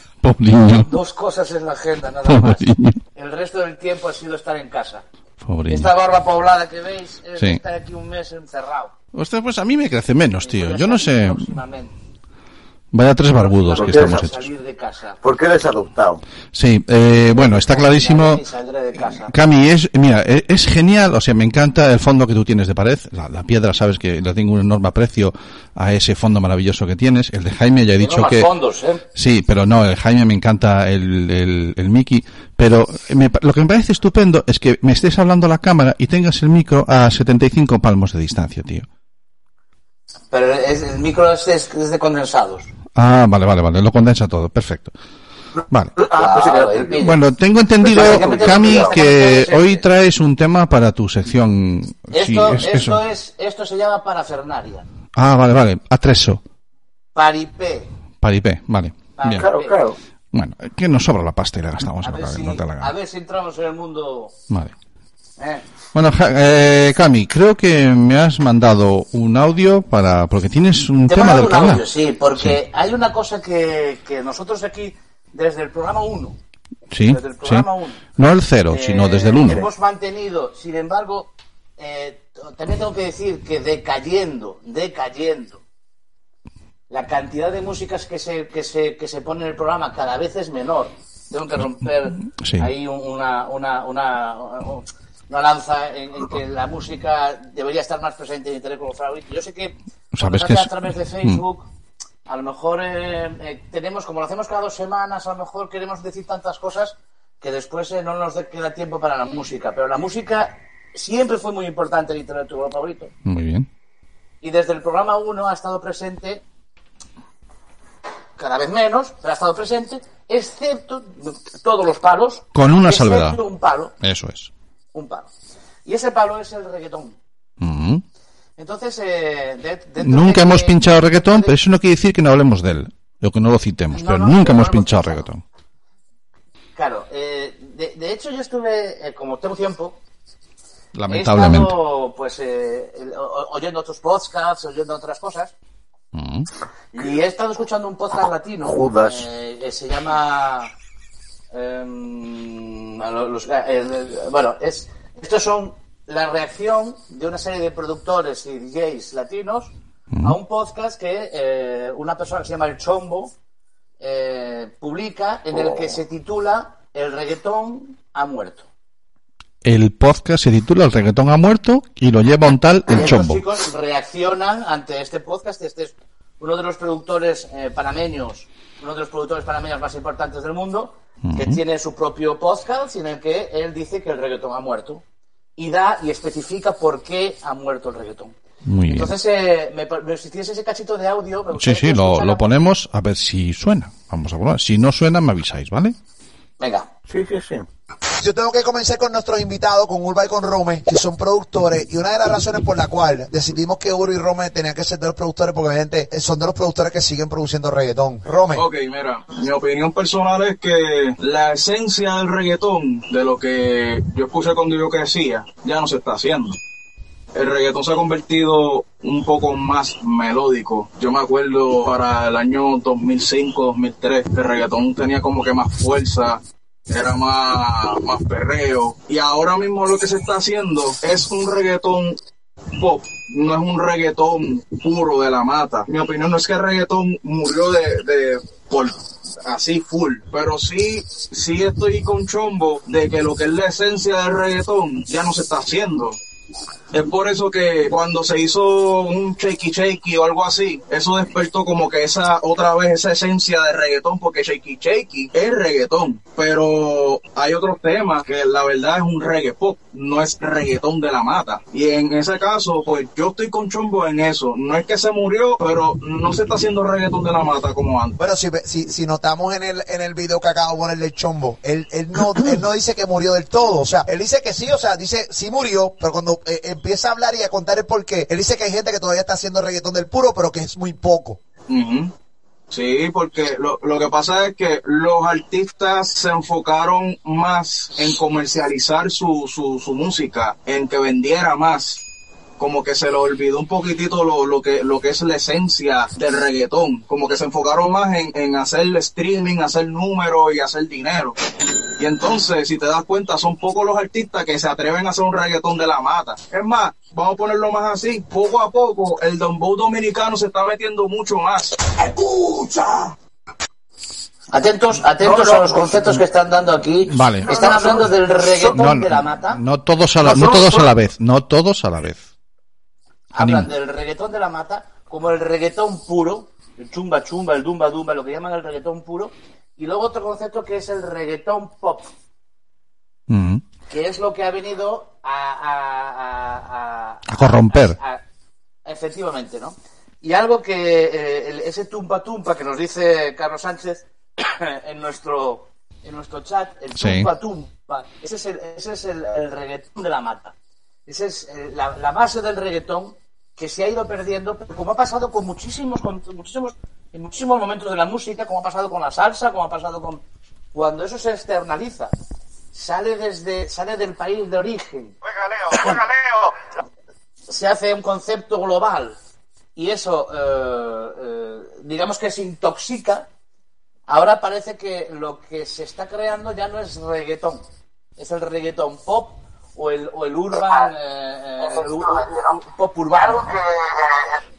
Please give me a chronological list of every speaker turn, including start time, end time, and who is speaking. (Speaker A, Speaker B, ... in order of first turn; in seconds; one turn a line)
Speaker A: 0.2-0.9
Speaker B: 0.7-5.0
Speaker A: 2.2-3.0
Speaker A: 5.4-5.9
Speaker B: 5.7-8.9
Speaker A: 9.1-11.5
Speaker B: 10.4-11.9
Speaker A: 12.9-14.5
Speaker B: 13.3-15.2
Speaker C: 13.8-14.3
Speaker C: 15.2-16.2
Speaker A: 16.5-18.4
Speaker B: 17.3-19.3
Speaker A: 19.1-28.5
Speaker B: 28.0-29.0
Speaker A: 29.1-38.9
Speaker B: 40.3-42.7
Speaker A: 42.9-44.9
Speaker C: 45.5-47.1
Speaker B: 46.1-47.2
Speaker A: 47.0-53.0
Speaker C: 47.8-49.0
Speaker B: 47.9-49.8
Speaker B: 52.1-54.9
Speaker A: 55.1-56.4
Speaker B: 57.1-57.9
Speaker A: 58.2-59.5
Speaker B: 59.2-59.8
Speaker C: 59.4-60.0
Speaker A: 60.3-62.9
Speaker B: 62.0-64.3
Speaker B: 65.4-65.6
Speaker A: 65.9-72.6
Speaker B: 71.1-76.4
Speaker A: 76.9-79.7
Speaker B: 77.1-78.1
Speaker B: 78.7-85.6
Speaker B: 86.9-101.7
Speaker A: 91.8-92.7
Speaker A: 100.2-101.4
Speaker B: 102.2-113.1
Speaker A: 113.2-113.7
Speaker B: 114.4-116.4
Speaker B: 118.4-123.9
Speaker A: 122.5-123.4
Speaker A: 124.0-124.5
Speaker B: 124.9-125.3
Speaker B: 125.8-127.2
Speaker A: 127.6-128.0
Speaker B: 128.6-131.5
Speaker A: 130.0-135.4
Speaker B: 133.9-135.2
Speaker B: 136.8-140.0
Speaker A: 140.9-141.7
Speaker B: 141.1-145.5
Speaker A: 146.1-146.5
Speaker B: 146.9-150.7
Speaker C: 148.6-149.2
Speaker B: 151.5-163.3
Speaker B: 164.0-168.7
Speaker A: 169.6-173.4
Speaker B: 172.9-185.0
Speaker A: 181.2-181.6
Speaker B: 185.6-188.3
Speaker A: 188.7-189.1
Speaker B: 188.9-192.4
Speaker A: 191.6-195.9
Speaker B: 196.6-196.9
Speaker C: 197.1-197.7
Speaker D: 198.1-208.6
Speaker E: 208.5-216.6
Speaker E: 217.3-232.2
Speaker E: 232.7-246.2
Speaker E: 246.9-268.2
Speaker D: 268.2-281.4
Speaker E: 281.7-282.1
Speaker E: 282.7-292.0
Speaker E: 292.6-301.4
Speaker E: 302.0-311.9
Speaker B: 314.5-319.6
Speaker C: 315.2-316.2
Speaker A: 317.1-318.1
Speaker C: 317.5-318.7
Speaker A: 318.7-322.3
Speaker B: 320.2-320.6
Speaker C: 320.4-320.8
Speaker B: 323.3-332.1
Speaker A: 323.4-323.7
Speaker A: 333.3-333.6
Speaker B: 333.9-338.2
Speaker A: 337.3-338.0
Speaker B: 338.9-350.5
Speaker A: 347.0-347.3
Speaker B: 351.1-360.2
Speaker B: 360.7-362.1
Speaker B: 362.7-365.1
Speaker B: 367.5-369.1
Speaker B: 369.8-373.3
Speaker B: 374.1-377.6
Speaker B: 378.2-383.6